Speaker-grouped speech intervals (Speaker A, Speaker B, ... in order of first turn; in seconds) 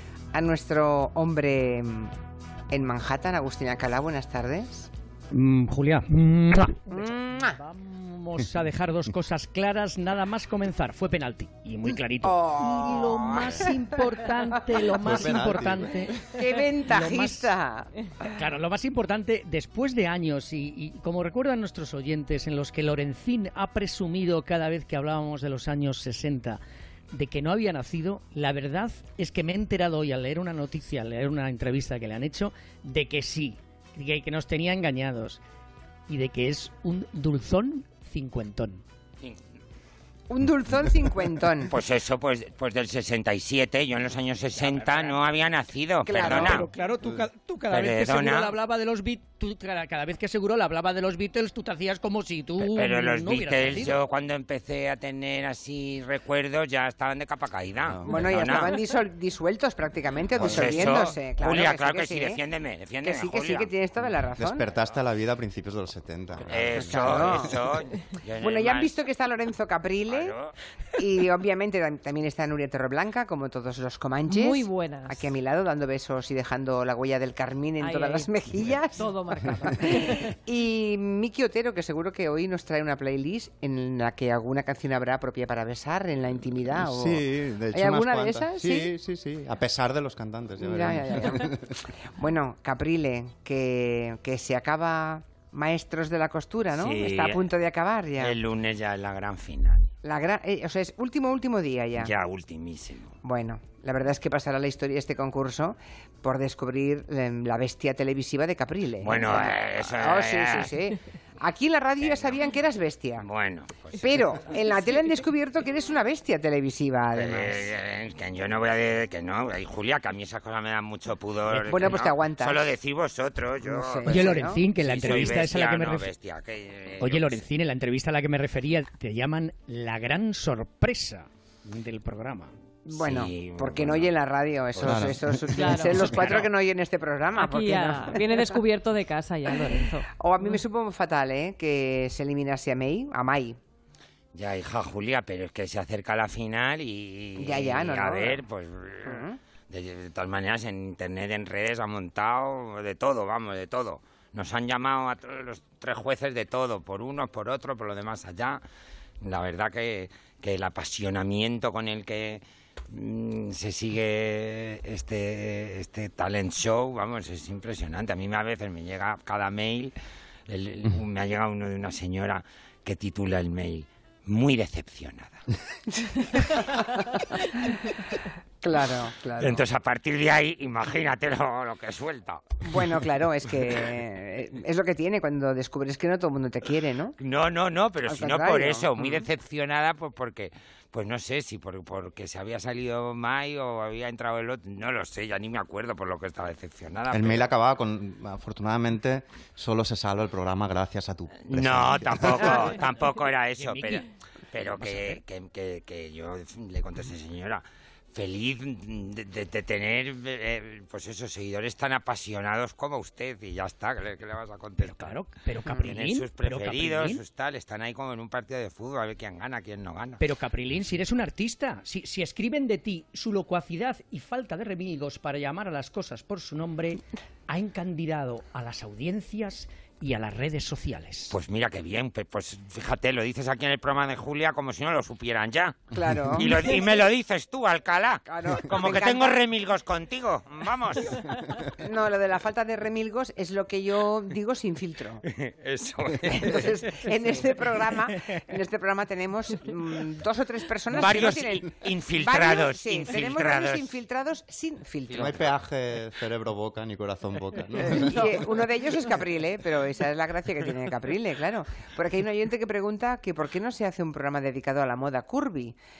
Speaker A: 0.3-2.1, 2.7-4.9, 6.9-7.6, 12.2-13.7, 16.3-17.9, 40.3-41.7, 46.0-46.7, 58.1-62.4, 63.0-64.7, 66.7-67.6, 68.4-70.3, 71.0-79.1, 79.6-88.9, 90.6-91.5, 92.0-98.3, 100.0-102.1, 103.2-113.2, 114.0-117.7, 121.7-122.6, 123.6-124.6, 132.8-138.5, 140.2-143.6, 147.4-148.4, 149.1-149.3, 175.9-176.8, 178.6-179.6, 182.6-187.1, 188.1-189.2, 235.9-236.9, 238.3-239.3, 241.7-245.2, 246.3-255.4, 257.9-265.8
Speaker B: 5.3-17.5, 18.4-26.6, 27.1-35.4, 36.1-38.8, 44.5-45.3, 46.2-54.0, 121.5-121.9, 124.1-126.1, 127.0-132.5, 203.6-204.1, 204.6-205.2, 214.8-217.2, 220.2-231.3
Speaker C: 15.0-16.1, 57.8-58.1, 60.4-61.0, 64.4-67.5, 86.7-91.8, 134.8-136.1, 197.1-202.7, 255.2-258.5
Speaker D: 41.7-46.6, 47.7-48.5, 52.6-58.8, 60.3-63.7, 66.5-69.0, 70.1-70.5, 96.7-97.5, 98.2-99.9, 102.0-103.2, 109.0-110.7, 112.0-112.5, 113.2-114.6, 117.1-127.4, 132.9-134.1, 134.8-135.1, 144.3-158.6, 159.2-169.9, 170.5-175.4, 179.4-182.6, 187.2-197.5, 201.4-215.1, 215.7-220.2, 231.3-241.2, 245.2-246.8, 250.9-253.9, 255.1-255.4
Speaker E: 74.3-75.2, 77.8-78.3, 79.0-80.3, 135.5-136.4, 137.3-140.5